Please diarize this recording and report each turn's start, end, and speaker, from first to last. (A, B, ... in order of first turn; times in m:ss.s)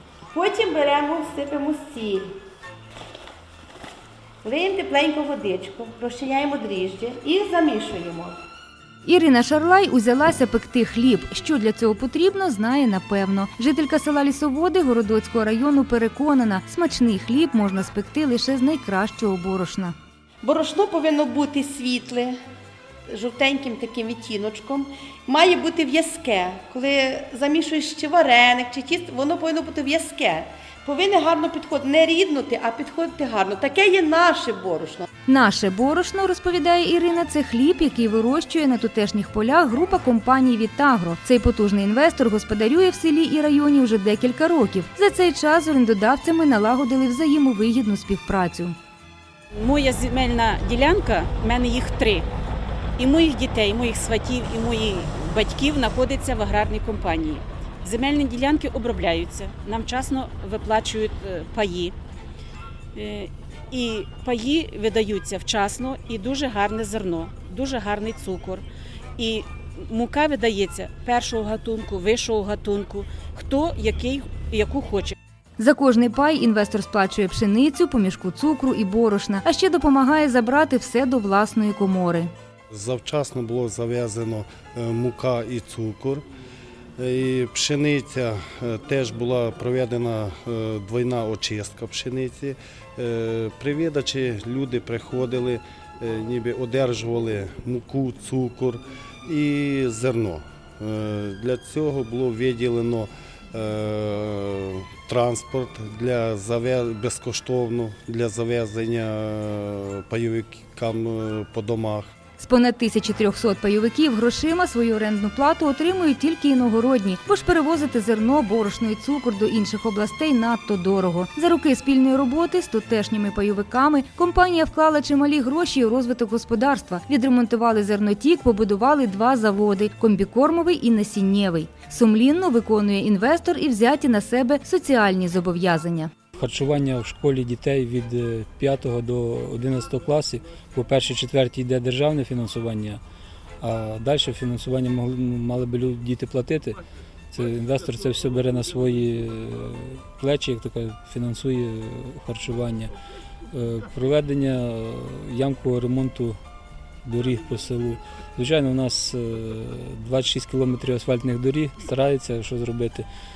0:00.3-0:02.4 A
0:04.4-0:08.4 A
0:09.0-0:19.9 B
0:20.4-0:22.4 A
0:23.1-0:35.1 A
0:35.3-0:48.7 B
0:49.5-0:52.3 C
0:53.0-1:01.9 C
1:02.9-1:08.6 C
1:09.2-1:15.2 C
1:15.6-1:22.3 B
1:22.7-1:26.2 D
1:27.0-1:52.1 D
1:52.4-2:16.1 B
2:16.4-2:23.0 E
2:23.6-2:32.9 E
2:33.5-2:36.4 E
2:37.0-2:43.1 E